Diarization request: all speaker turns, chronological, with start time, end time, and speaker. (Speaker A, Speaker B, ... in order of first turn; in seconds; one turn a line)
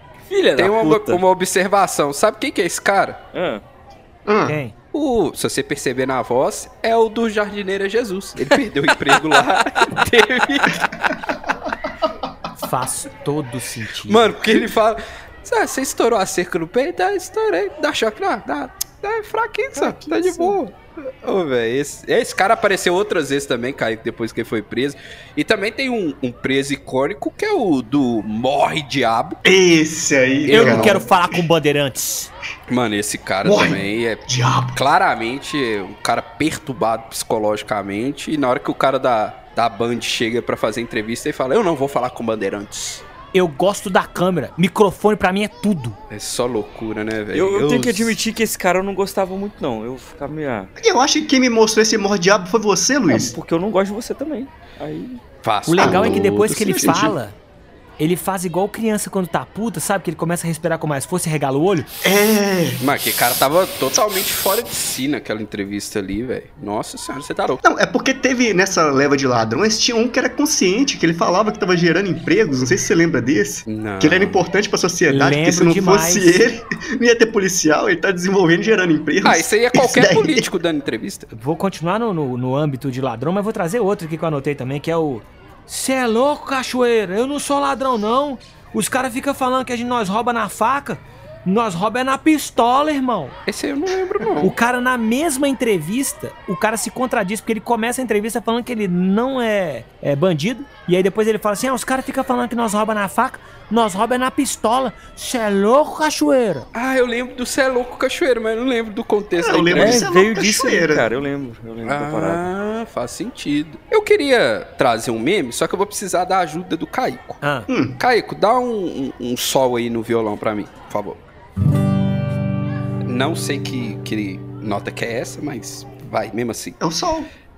Speaker A: 0.3-1.2
Speaker B: 0.6-3.2
Speaker A: 3.3-3.6
Speaker C: 4.2-4.6
Speaker D: 4.5-4.7
Speaker B: 4.9-11.1
Speaker A: 9.1-9.4
Speaker D: 12.6-14.3
Speaker B: 14.1-29.4
Speaker D: 19.8-20.6
Speaker C: 29.4-31.3
Speaker B: 30.4-31.0
Speaker D: 30.5-32.3
Speaker B: 32.7-34.2
Speaker C: 33.4-34.8
Speaker B: 34.7-43.0
Speaker D: 43.3-46.0
Speaker B: 46.1-48.2
Speaker A: 47.3-50.7
Speaker C: 50.8-53.4
Speaker A: 53.1-55.2
Speaker B: 55.4-57.1
Speaker D: 55.6-57.3
Speaker C: 55.8-57.1
Speaker D: 58.0-61.9
Speaker C: 62.0-62.8
Speaker B: 62.8-67.6
Speaker C: 67.6-80.5
Speaker B: 73.7-74.4
Speaker D: 75.1-76.4
Speaker B: 79.2-81.3
Speaker D: 81.3-93.4
Speaker B: 93.5-94.5
Speaker D: 94.4-106.7
Speaker B: 106.7-110.0
Speaker C: 109.4-111.1
Speaker A: 109.7-112.4
Speaker B: 111.8-117.4
Speaker D: 117.4-117.7
Speaker C: 117.7-118.0
Speaker B: 118.0-121.2
Speaker B: 123.0-126.8
Speaker C: 126.8-127.3